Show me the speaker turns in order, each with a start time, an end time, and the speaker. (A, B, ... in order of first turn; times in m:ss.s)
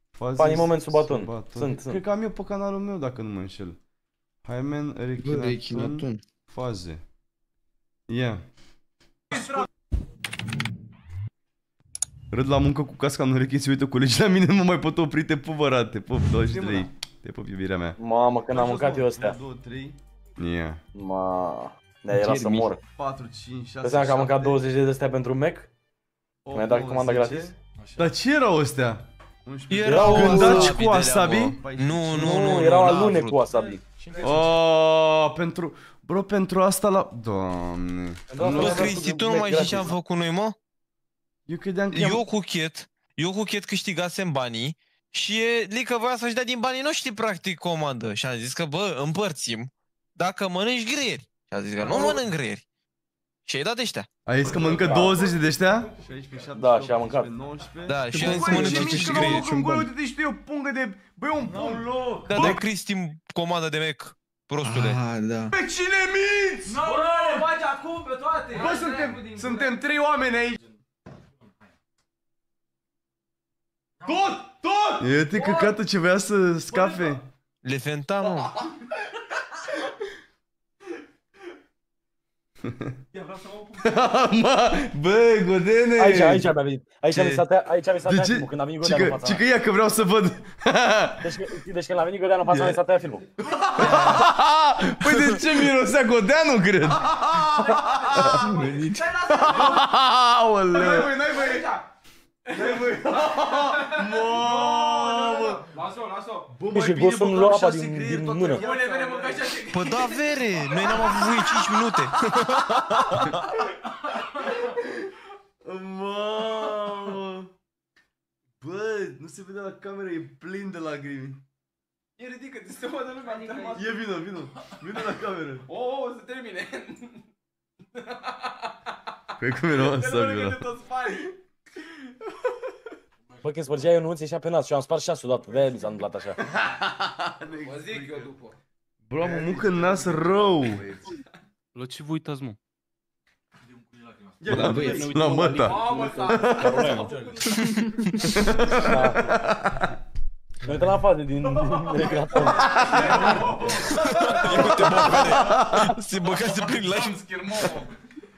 0:00.2-0:03.8 A
0:00.4-0:02.0 B
0:04.4-0:07.0 A
0:05.2-0:06.2 C
0:08.1-0:08.4 A
0:12.3-0:18.0 A
0:18.0-0:19.4 B
0:18.5-0:20.8 A
0:20.9-0:22.8 B
0:22.1-0:22.7 C
0:23.0-0:24.6 A
0:23.8-0:25.7 B
0:26.4-0:33.1 A
0:26.5-0:27.5 B
0:29.7-0:33.4 D
0:29.8-0:30.8 B
0:32.2-0:33.8 B
0:33.5-0:34.5 E
0:34.2-0:39.0 A
0:38.3-0:39.9 B
0:38.4-0:40.6 D
0:41.5-0:42.2 A
0:41.9-0:52.6 D
0:53.4-0:54.1 D
0:54.2-1:02.6 A
0:55.0-0:55.4 E
0:56.6-0:57.3 B
0:57.8-0:59.4 D
0:58.1-0:59.9 C
1:01.4-1:02.4 E
1:02.3-1:05.0 D
1:04.6-1:05.5 C
1:05.6-1:07.3 A
1:06.6-1:09.8 E
1:08.5-1:10.6 A
1:14.0-1:15.8 E
1:15.0-1:17.2 A
1:16.7-1:17.2 E
1:17.6-1:18.5 D
1:23.1-1:24.0 E
1:23.8-1:26.5 A
1:26.0-1:29.4 B
1:28.0-1:31.2 A
1:31.2-1:33.2 B
1:33.5-1:38.5 A
1:33.5-1:33.9 E
1:33.9-1:34.1 D
1:37.4-1:39.9 E
1:38.2-1:39.3 C
1:39.2-1:41.6 A
1:40.7-1:41.8 E
1:42.5-1:46.5 E
1:42.5-1:45.6 A
1:46.6-1:48.7 A
1:46.7-1:48.6 B
1:48.4-1:52.0 E
1:49.7-1:52.9 D
1:55.6-1:57.5 A
1:58.6-2:01.4 A
2:02.2-2:04.0 E
2:03.6-2:05.6 A
2:05.7-2:07.1 E
2:09.4-2:10.6 A
2:09.7-2:11.3 E
2:13.4-2:16.4 B
2:16.4-2:18.3 A
2:17.6-2:18.6 E
2:19.1-2:20.9 A
2:19.2-2:20.9 E
2:21.7-2:22.6 F
2:24.4-2:25.1 C
2:24.5-2:27.1 A
2:24.5-2:25.0 E
2:24.5-2:27.4 F
2:25.5-2:29.1 E
2:27.5-2:27.8 D
2:28.3-2:29.8 A
2:28.7-2:29.3 B
2:30.6-2:33.8 B
2:32.0-2:37.9 E
2:32.5-2:35.9 A
2:34.0-2:37.7 D